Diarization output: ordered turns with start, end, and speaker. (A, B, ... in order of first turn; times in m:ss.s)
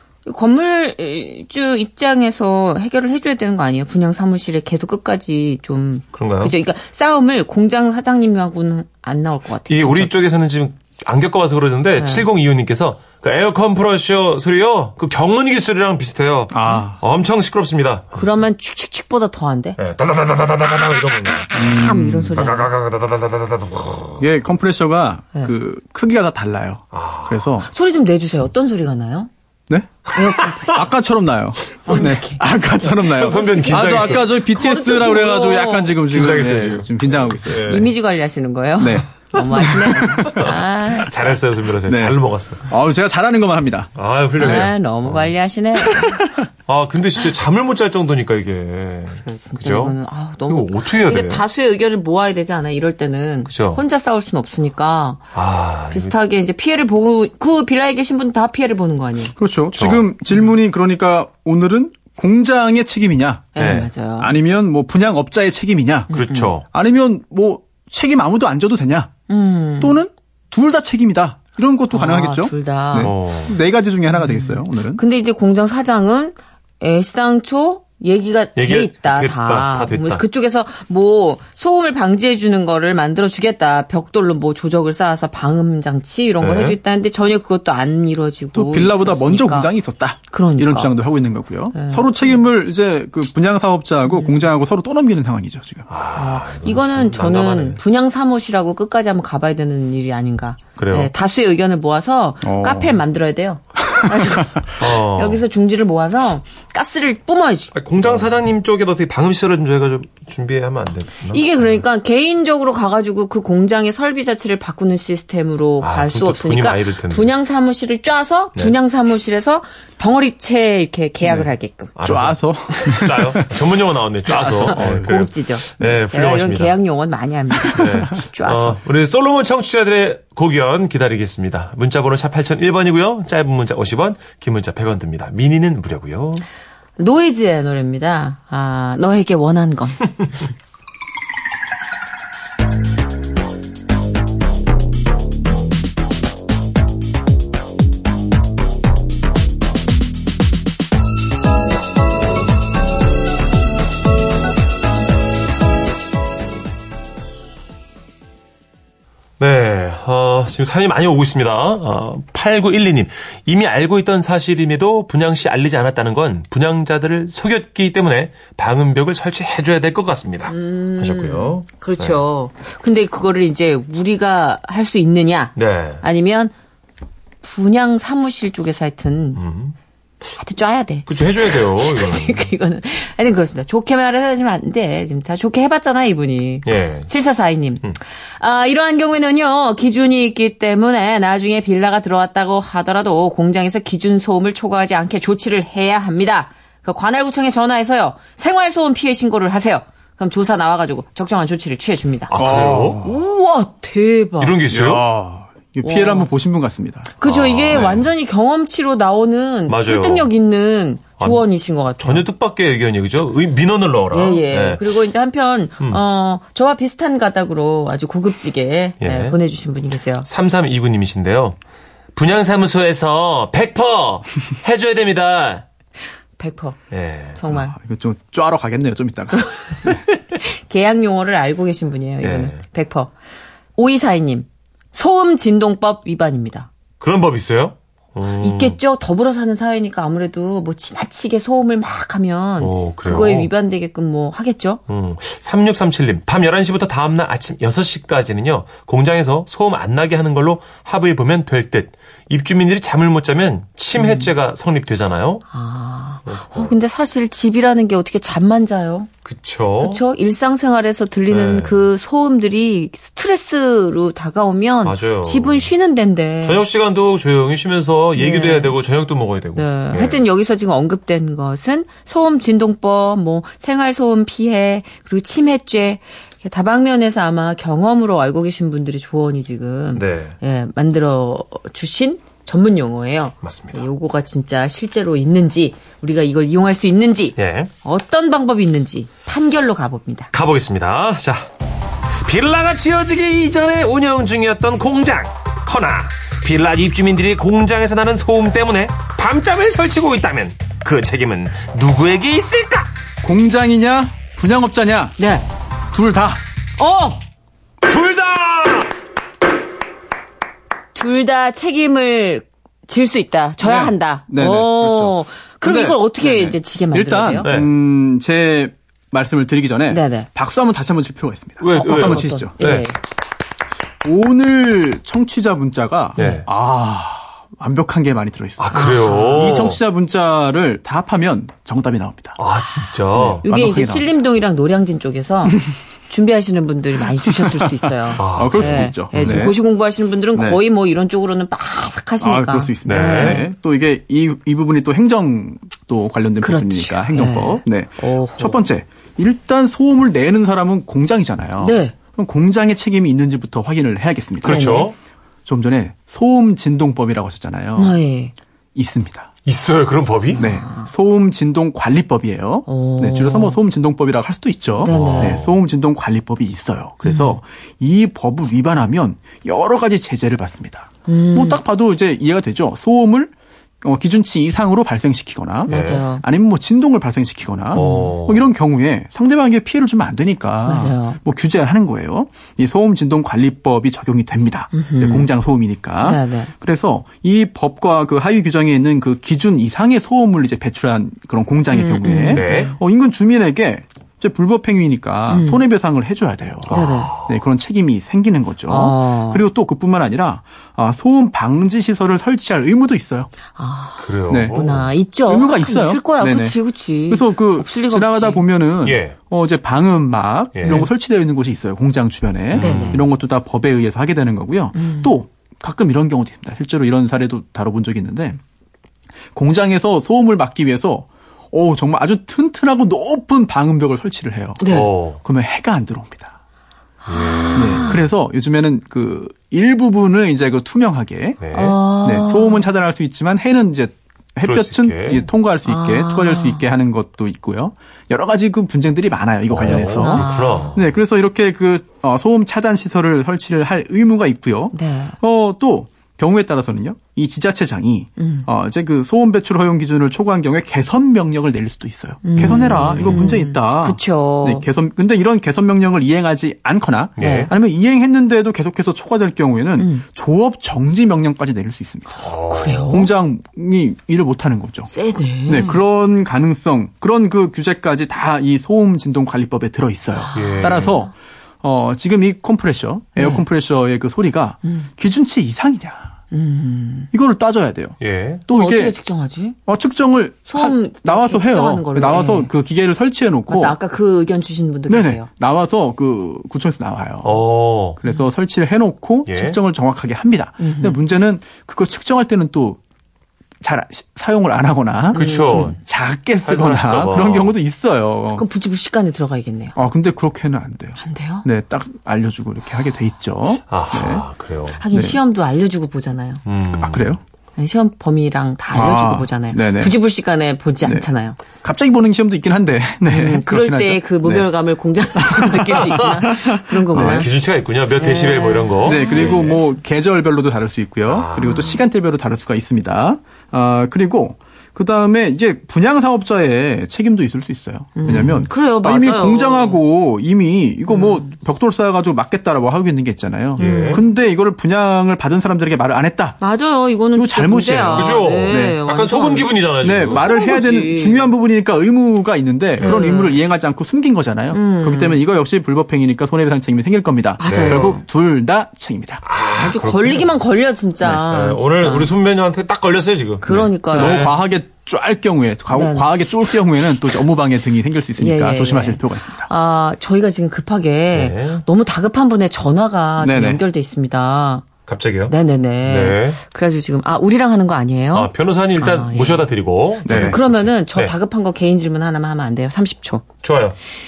0:00.2-0:10.1 A
0:06.2-0:06.5 B
0:09.7-0:18.4 B
0:12.0-0:12.3 A
0:16.5-0:17.0 C
0:18.1-0:19.8 A
0:19.8-0:21.5 B
0:21.5-0:22.4 C
0:21.6-0:22.7 A
0:22.3-0:24.2 B
0:24.2-0:27.7 C
0:26.9-0:27.5 B
0:27.7-0:29.3 A
0:30.1-0:30.9 A
0:30.2-0:30.6 B
0:30.7-0:37.8 C
0:31.9-0:36.2 A
0:33.0-0:34.3 B
0:36.1-0:37.9 B
0:37.5-0:41.3 A
0:38.8-0:41.0 C
0:40.4-0:42.6 B
0:41.8-0:44.7 C
0:43.9-0:45.3 B
0:44.4-0:46.2 A
0:45.8-0:46.4 C
0:46.7-0:50.0 B
0:49.2-0:55.2 A
0:50.5-0:51.4 B
0:53.5-0:53.8 B
0:55.3-0:56.1 B
0:55.9-0:59.3 A
0:59.4-1:09.1 C
0:59.7-1:00.1 B
1:03.5-1:04.3 A
1:03.6-1:03.9 B
1:06.1-1:06.6 B
1:06.1-1:06.5 A
1:09.3-1:10.0 A
1:09.8-1:15.0 C
1:11.9-1:13.1 A
1:13.0-1:13.6 B
1:14.1-1:29.7 A
1:18.5-1:20.2 B
1:26.4-1:26.8 B
1:28.5-1:35.9 C
1:30.3-1:31.0 A
1:31.7-1:32.4 A
1:34.0-1:34.5 A
1:35.9-1:37.8 B
1:36.1-1:47.7 A
1:40.8-1:41.1 B
1:42.4-1:43.0 C
1:43.8-1:44.6 C
1:44.8-1:45.4 B
1:47.7-1:51.6 B
1:51.3-2:01.9 A
1:55.8-1:57.3 B
2:01.3-2:06.8 B
2:02.0-2:03.7 C
2:04.2-2:05.2 C
2:04.5-2:08.8 A
2:07.6-2:08.0 C
2:07.7-2:16.4 B
2:17.0-2:20.4 A
2:39.4-2:52.2 B
2:50.5-2:56.5 A
2:55.5-2:56.0 B
2:57.4-2:59.4 A
2:59.4-2:59.7 B
3:00.3-3:24.6 A
3:01.1-3:02.5 B
3:06.6-3:07.1 B
3:22.3-3:23.0 B
3:22.4-3:23.2 C
3:24.4-3:25.0 B
3:24.7-3:27.1 C
3:25.8-3:26.3 A
3:27.2-3:32.2 A
3:27.2-3:28.1 B
3:29.7-3:30.3 B
3:31.2-3:31.4 B
3:32.0-3:34.9 B
3:34.1-3:40.3 A
3:39.0-3:39.4 B
3:40.2-3:41.6 B
3:42.1-3:45.6 B
3:46.4-3:46.8 A
3:46.9-3:47.4 B
3:47.4-3:47.7 A
3:47.5-3:49.9 C
3:49.4-3:53.1 A
3:52.2-3:52.6 B
3:53.8-3:56.7 A
3:57.0-3:58.8 B
3:58.4-4:04.8 A
4:02.6-4:03.5 B
4:04.9-4:15.4 B
4:14.0-4:14.3 A
4:15.5-4:19.1 A
4:16.2-4:16.7 B
4:19.2-4:20.0 B
4:19.8-4:26.6 A
4:21.3-4:21.9 B
4:24.8-4:25.7 B
4:26.4-4:30.2 B
4:28.2-4:28.8 A
4:29.6-4:50.3 A
4:39.9-4:40.3 B
4:43.4-4:43.9 B
4:47.4-4:47.7 B
4:50.3-4:51.4 B
4:52.2-5:02.9 B
5:03.2-5:05.2 C
5:05.2-5:05.4 A
5:05.9-5:06.4 C
5:06.8-5:07.2 A
5:07.8-5:08.9 B
5:10.9-5:17.5 A
5:13.6-5:22.6 C
5:17.4-5:17.7 B
5:19.9-5:20.3 A
5:21.6-5:22.9 B
5:21.7-5:23.0 A
5:24.0-5:32.4 C
5:26.2-5:26.4 A
5:26.2-5:26.4 B
5:28.6-5:29.8 B
5:28.7-5:29.6 A
5:32.4-5:33.4 B
5:33.1-5:34.1 C
5:33.4-5:43.5 A
5:37.5-5:39.6 C
5:38.2-5:39.5 B
5:40.3-5:40.6 C
5:42.2-5:54.9 C
5:42.8-5:43.4 B
5:46.4-5:48.7 A
5:51.6-5:51.9 A
5:54.4-5:54.9 B
5:54.4-5:54.9 A
5:55.4-5:58.0 C
5:57.8-5:58.3 A
5:58.7-5:59.3 C
5:59.4-6:00.4 B
6:00.4-6:43.3 C
6:00.4-6:00.9 A
6:02.7-6:03.6 A
6:04.8-6:05.4 A
6:04.8-6:05.6 B
6:07.0-6:07.4 A
6:11.1-6:11.6 A
6:15.7-6:16.2 A
6:15.7-6:16.0 B
6:17.7-6:18.5 B
6:17.7-6:18.1 A
6:20.6-6:21.2 A
6:24.7-6:25.3 A
6:26.0-6:26.5 A
6:31.7-6:32.8 A
6:32.3-6:32.7 B
6:35.3-6:35.6 A
6:36.7-6:37.1 A
6:36.7-6:37.4 B
6:38.7-6:39.4 A
6:43.5-6:48.4 A
6:44.0-6:44.9 B
6:44.3-6:44.6 C
6:45.2-6:58.4 C
6:48.8-6:49.2 B
6:50.5-6:50.9 B
6:50.6-6:50.9 A
6:52.5-6:53.0 B
6:52.6-6:53.0 A
6:54.7-6:55.2 A
6:59.3-7:06.3 C
7:04.6-7:04.9 A
7:04.7-7:05.2 B
7:07.0-7:08.0 A
7:07.1-7:07.9 B
7:07.5-7:11.4 C
7:11.4-7:11.8 B
7:11.5-7:12.7 A
7:12.0-7:42.2 C
7:14.4-7:15.3 B
7:15.6-7:16.6 A
7:19.5-7:21.0 B
7:19.6-7:20.7 A
7:24.7-7:25.2 A
7:28.2-7:28.5 A
7:32.2-7:34.6 A
7:32.6-7:33.1 B
7:37.2-7:37.5 B
7:37.2-7:37.5 A
7:42.2-7:42.9 B
7:42.5-7:43.1 A
7:42.9-7:44.9 C
7:44.9-7:45.8 A
7:45.5-7:56.1 C
7:50.2-7:51.0 A
7:50.3-7:51.0 B
7:53.2-7:53.4 A
7:56.3-7:57.1 A
7:57.1-7:58.0 C
7:58.0-7:58.4 B
7:58.5-7:59.0 C
7:58.5-7:59.6 A
7:59.7-8:03.8 C
8:00.5-8:02.5 A
8:03.5-8:05.2 A
8:04.9-8:07.4 C
8:07.2-8:08.0 B
8:08.0-8:12.8 C
8:09.3-8:09.6 B
8:10.6-8:11.0 A
8:13.6-8:18.4 C
8:15.1-8:15.8 B
8:15.1-8:15.8 A
8:16.4-8:17.5 B
8:18.3-8:19.7 A
8:19.7-8:24.2 C
8:21.0-8:21.4 A
8:23.7-8:24.8 B
8:24.8-8:26.4 A
8:24.9-8:25.2 C
8:26.4-8:27.2 B
8:26.8-8:27.2 C
8:27.6-8:31.4 A
8:28.7-8:30.0 C
8:30.8-8:31.1 C
8:31.6-8:34.5 C
8:33.1-8:37.3 A
8:35.1-8:37.3 C
8:36.9-8:39.6 B
8:38.0-8:39.6 A
8:38.8-8:56.4 C
8:41.1-8:41.5 B
8:41.4-8:41.8 A
8:48.0-8:49.8 A
8:50.9-8:51.3 A
8:53.6-8:54.0 A
8:53.6-8:54.0 B
8:56.4-8:59.5 A
8:57.1-8:58.8 C
8:57.9-9:00.3 B
8:59.8-9:09.2 C
9:00.0-9:01.3 A
9:02.8-9:03.4 A
9:04.5-9:05.2 A
9:07.4-9:08.0 A
9:07.4-9:08.0 B
9:09.2-9:10.4 B
9:09.6-9:12.1 A
9:11.0-9:14.4 B
9:13.4-9:14.3 A
9:13.9-9:19.5 C
9:15.7-9:16.1 A
9:18.2-9:24.7 A
9:21.1-9:21.6 B
9:23.2-9:23.6 C
9:24.9-9:26.4 B
9:25.3-9:29.5 A
9:28.1-9:31.1 B
9:30.0-9:30.4 C
9:30.0-9:33.2 A
9:33.4-9:33.8 B